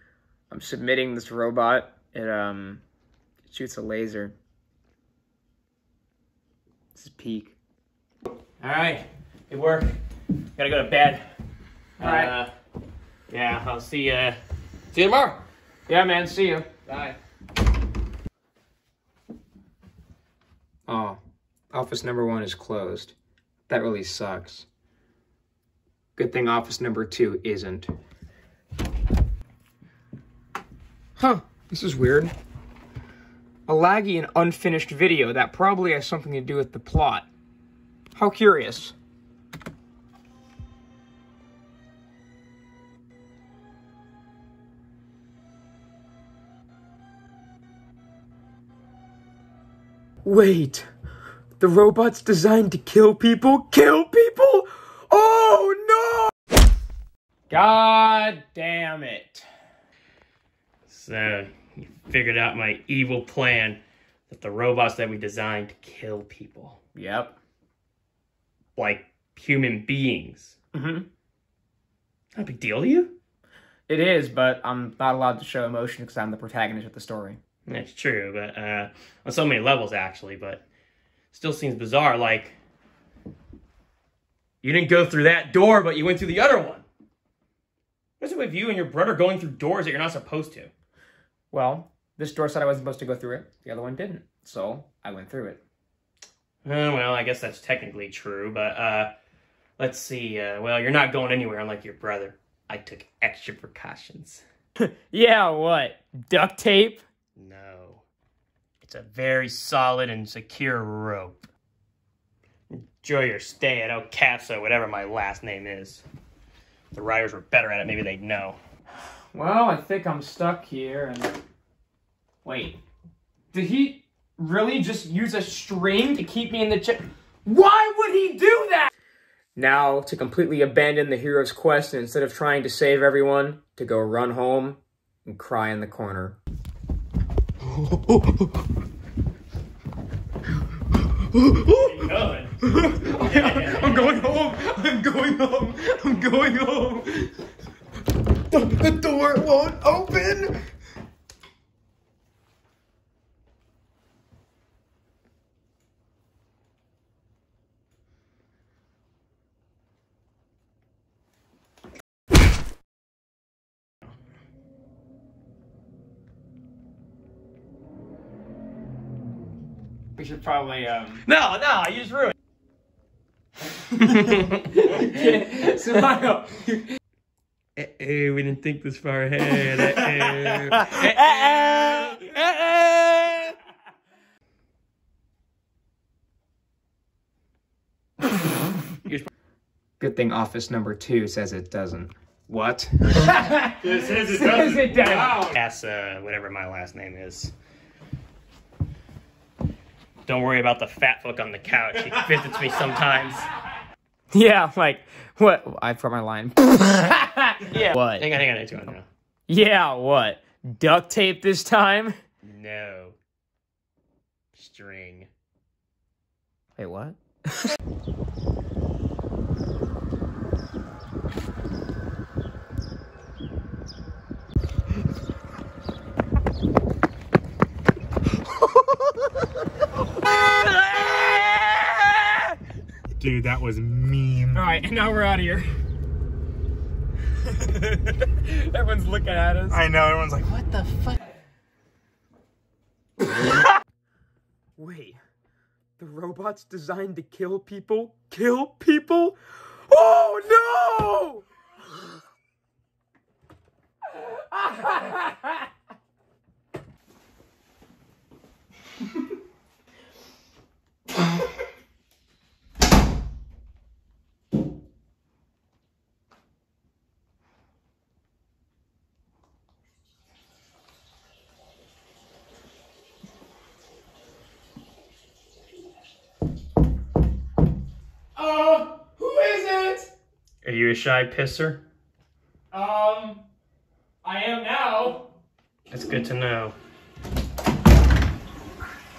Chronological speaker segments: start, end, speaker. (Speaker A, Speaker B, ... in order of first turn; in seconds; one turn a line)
Speaker A: 0.5-2.8
Speaker A: 3.5-4.3
Speaker A: 6.9-7.6
Speaker B: 8.6-10.0
Speaker B: 10.6-11.3
Speaker A: 12.0-12.3
Speaker B: 12.0-12.5
Speaker B: 13.3-14.4
Speaker B: 14.9-15.4
Speaker A: 15.9-16.9
Speaker B: 16.9-17.1
Speaker A: 20.9-21.2
Speaker A: 21.7-23.1
Speaker A: 23.7-24.7
Speaker A: 26.1-27.9
Speaker A: 31.2-32.3
Speaker A: 33.7-37.3
Speaker A: 38.1-38.9
Speaker A: 50.2-50.9
Speaker A: 51.6-56.3
Speaker A: 57.5-59.5
Speaker B: 60.9-66.8
Speaker A: 67.0-67.4
Speaker B: 68.8-70.6
Speaker A: 70.7-71.1
Speaker B: 72.3-73.2
Speaker A: 73.9-77.4
Speaker B: 77.7-80.6
Speaker B: 81.3-82.6
Speaker B: 84.6-86.9
Speaker B: 88.2-90.7
Speaker A: 91.5-95.6
Speaker B: 96.6-99.1
Speaker B: 99.8-104.4
Speaker A: 104.8-107.0
Speaker B: 107.4-108.0
Speaker B: 108.8-111.5
Speaker B: 112.7-116.0
Speaker B: 116.9-118.6
Speaker A: 119.3-121.4
Speaker A: 122.4-122.8
Speaker A: 123.5-128.9
Speaker A: 129.5-136.4
Speaker A: 137.6-138.5
Speaker A: 141.2-142.0
Speaker B: 141.7-144.3
Speaker A: 142.6-147.4
Speaker A: 148.5-150.6
Speaker A: 170.1-171.2
Speaker B: 171.2-172.3
Speaker B: 173.9-175.0
Speaker A: 174.2-176.8
Speaker B: 177.8-183.4
Speaker A: 181.3-183.3
Speaker A: 190.0-195.5
Speaker B: 193.8-197.5
Speaker B: 200.2-203.5
Speaker A: 204.3-208.2
Speaker B: 207.7-209.1
Speaker A: 209.5-212.2
Speaker B: 212.4-213.2
Speaker B: 214.5-215.3
Speaker A: 216.8-217.7
Speaker A: 230.4-232.4
Speaker C: 233.2-234.6
Speaker A: 234.5-235.7
Speaker A: 237.5-241.1
Speaker C: 239.7-240.5
Speaker A: 244.8-245.2
Speaker A: 246.0-251.4
Speaker A: 254.1-255.6
Speaker A: 278.4-280.1
Speaker B: 280.6-281.8
Speaker A: 282.7-283.4
Speaker A: 284.2-285.3
Speaker B: 285.9-286.8